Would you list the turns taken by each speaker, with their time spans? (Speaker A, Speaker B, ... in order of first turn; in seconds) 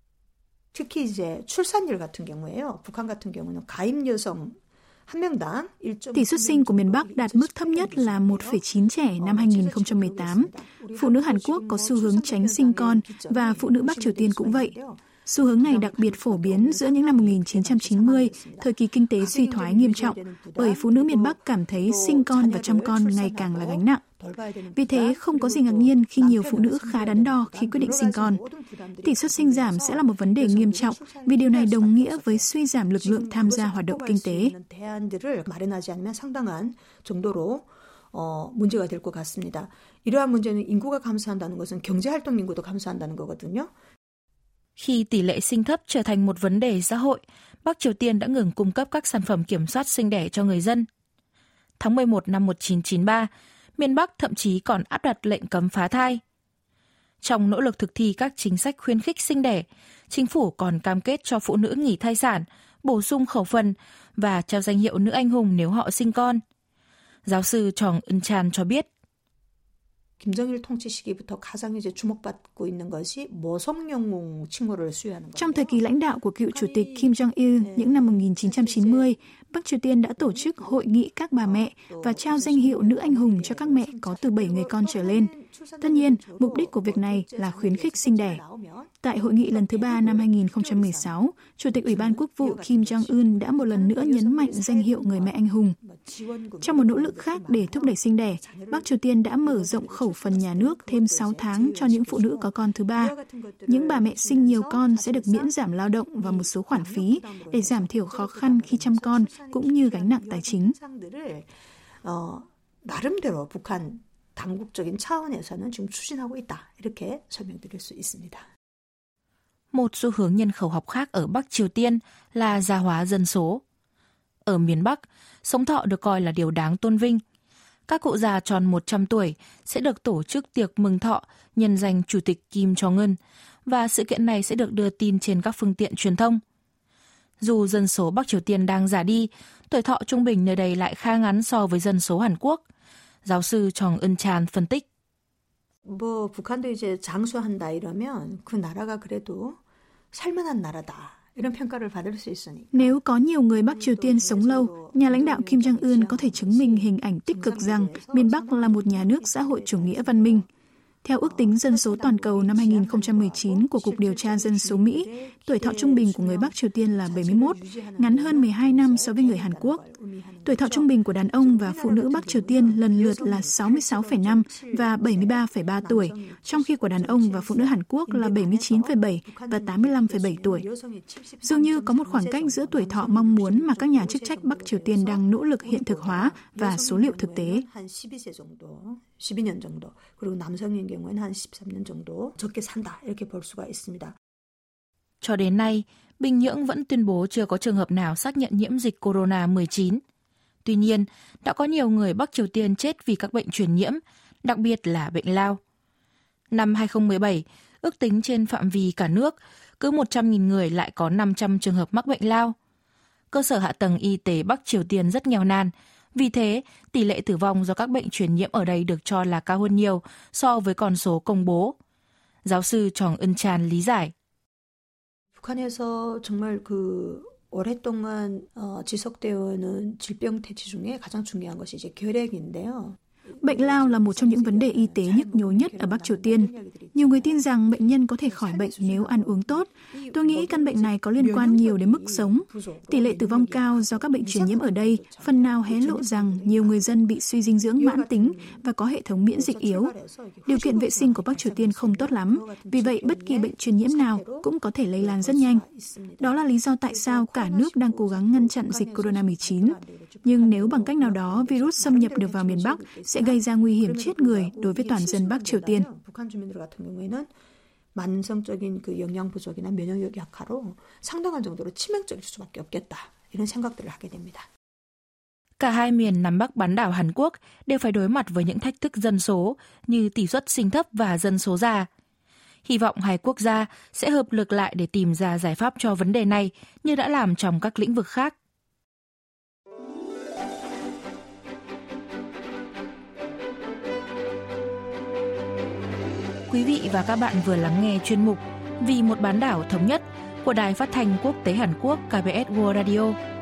Speaker A: 0.7-8.6, 9.2-15.0, 15.6-43.7, 70.2-75.8, 76.5-79.1, 80.2-80.9, 81.4-91.1, 91.7-105.5, 106.2-111.5, 112.0-118.5, 145.8-149.6, 150.1-153.0, 153.5-160.4, 161.2-194.1, 225.4-237.4, 238.2-247.0, 247.8-248.6, 249.3-267.3, 267.9-274.5
Speaker B: 6.1-14.7, 15.2-24.0, 24.7-28.4, 29.0-34.5, 75.3-88.4, 89.0-95.8, 96.6-103.1, 103.7-110.8, 152.7-160.4, 161.0-169.8, 170.4-180.6, 181.4-187.6, 233.4-249.9, 250.4-255.6, 256.2-265.9
Speaker C: 44.8-50.9, 51.8-56.2, 57.2-66.4, 67.2-68.9, 119.7-123.6, 124.4-127.2, 127.9-136.4, 137.4-142.6, 143.2-144.8, 195.2-200.0, 200.6-205.6, 206.5-212.5, 213.3-221.7, 222.4-224.1, 275.6-281.9, 282.6-288.3, 296.5-303.2